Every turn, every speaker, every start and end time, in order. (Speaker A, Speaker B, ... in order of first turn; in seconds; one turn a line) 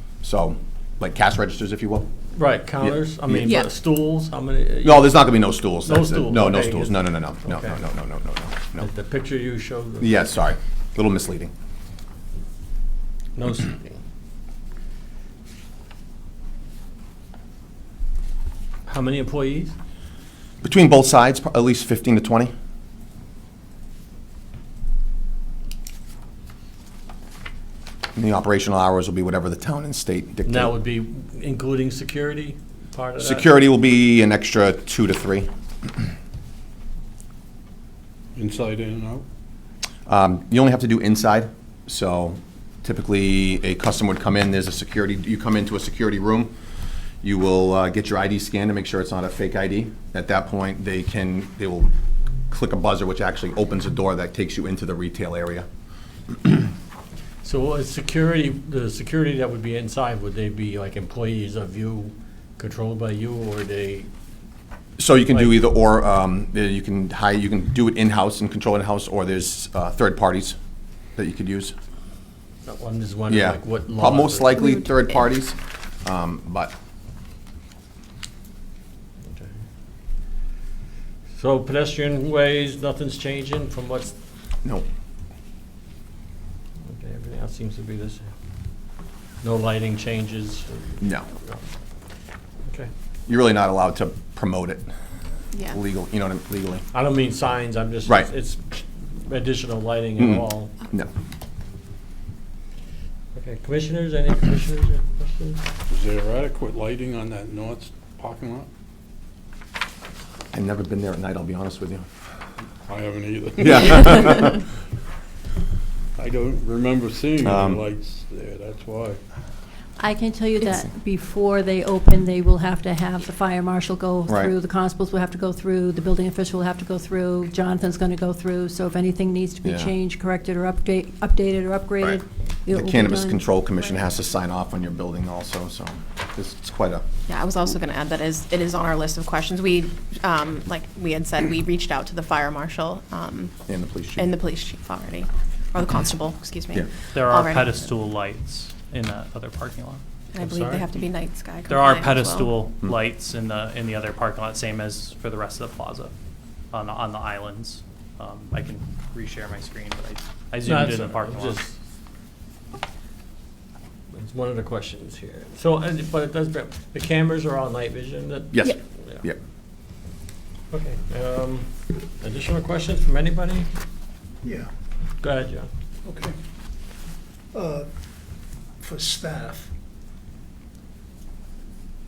Speaker A: 0.2-2.1
Speaker B: 2.3-7.8
Speaker A: 2.8-3.4
Speaker A: 4.8-8.9
Speaker B: 8.8-10.2
Speaker A: 10.0-11.5
Speaker B: 13.4-14.0
Speaker B: 18.9-19.7
Speaker A: 20.6-22.5
Speaker A: 28.2-30.7
Speaker B: 30.4-33.5
Speaker A: 33.2-35.5
Speaker C: 38.4-39.2
Speaker A: 40.1-46.5
Speaker A: 47.2-51.9
Speaker A: 52.5-55.7
Speaker B: 57.4-64.1
Speaker A: 65.0-70.6
Speaker B: 65.3-65.6
Speaker A: 71.2-71.8
Speaker B: 72.7-74.6
Speaker A: 73.3-76.7
Speaker B: 79.2-79.6
Speaker B: 81.3-84.2
Speaker B: 86.8-88.3
Speaker B: 89.4-91.6
Speaker A: 93.3-94.9
Speaker D: 95.5-95.8
Speaker A: 95.7-96.8
Speaker B: 96.9-100.7
Speaker A: 100.2-101.1
Speaker B: 103.3-105.7
Speaker C: 105.9-108.7
Speaker A: 110.5-112.1
Speaker C: 112.8-114.6
Speaker A: 113.6-114.6
Speaker C: 116.2-119.2
Speaker A: 117.4-117.8
Speaker E: 120.0-133.6
Speaker A: 124.3-124.5
Speaker A: 129.6-129.9
Speaker A: 132.0-137.1
Speaker D: 137.3-147.9
Speaker A: 143.7-144.3
Speaker F: 147.1-150.0
Speaker D: 150.3-152.6
Speaker B: 150.4-150.9
Speaker F: 151.7-156.1
Speaker F: 156.7-161.6
Speaker B: 160.6-161.8
Speaker B: 164.1-169.2
Speaker A: 168.5-169.4
Speaker B: 170.7-173.7
Speaker G: 174.4-174.7
Speaker B: 175.2-175.7
Speaker G: 176.1-176.4
Speaker G: 177.5-177.9
Speaker G: 178.8-179.7